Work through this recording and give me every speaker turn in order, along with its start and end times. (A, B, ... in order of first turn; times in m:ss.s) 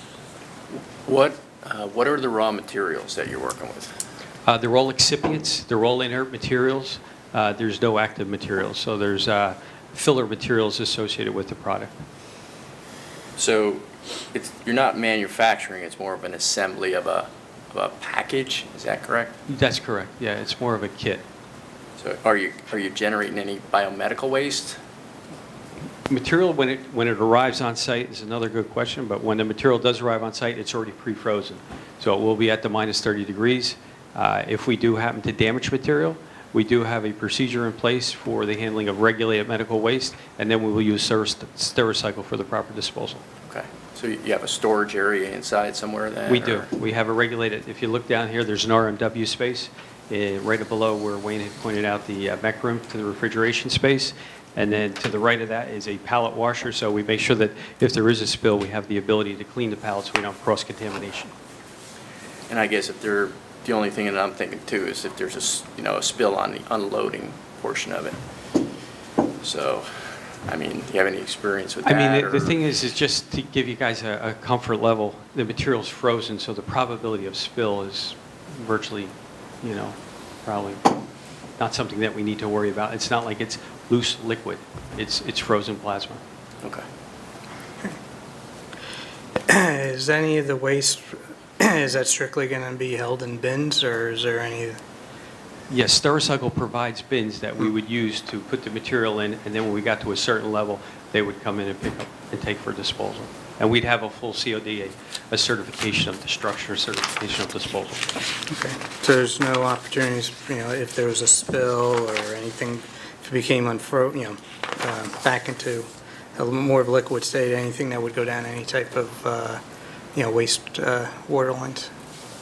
0:00.7-0:03.9 A
0:04.4-0:11.9 B
0:13.4-0:19.3 A
0:19.5-0:21.2 B
0:22.0-0:24.8 A
0:26.1-0:43.2 B
0:43.5-0:46.7 A
0:46.3-1:01.3 B
1:02.5-1:08.2 A
1:09.4-1:12.6 A
1:11.8-1:20.9 B
1:21.6-1:26.2 B
1:29.5-1:34.8 C
1:35.7-1:48.0 B
1:48.5-1:59.6 C
2:00.1-2:01.9 C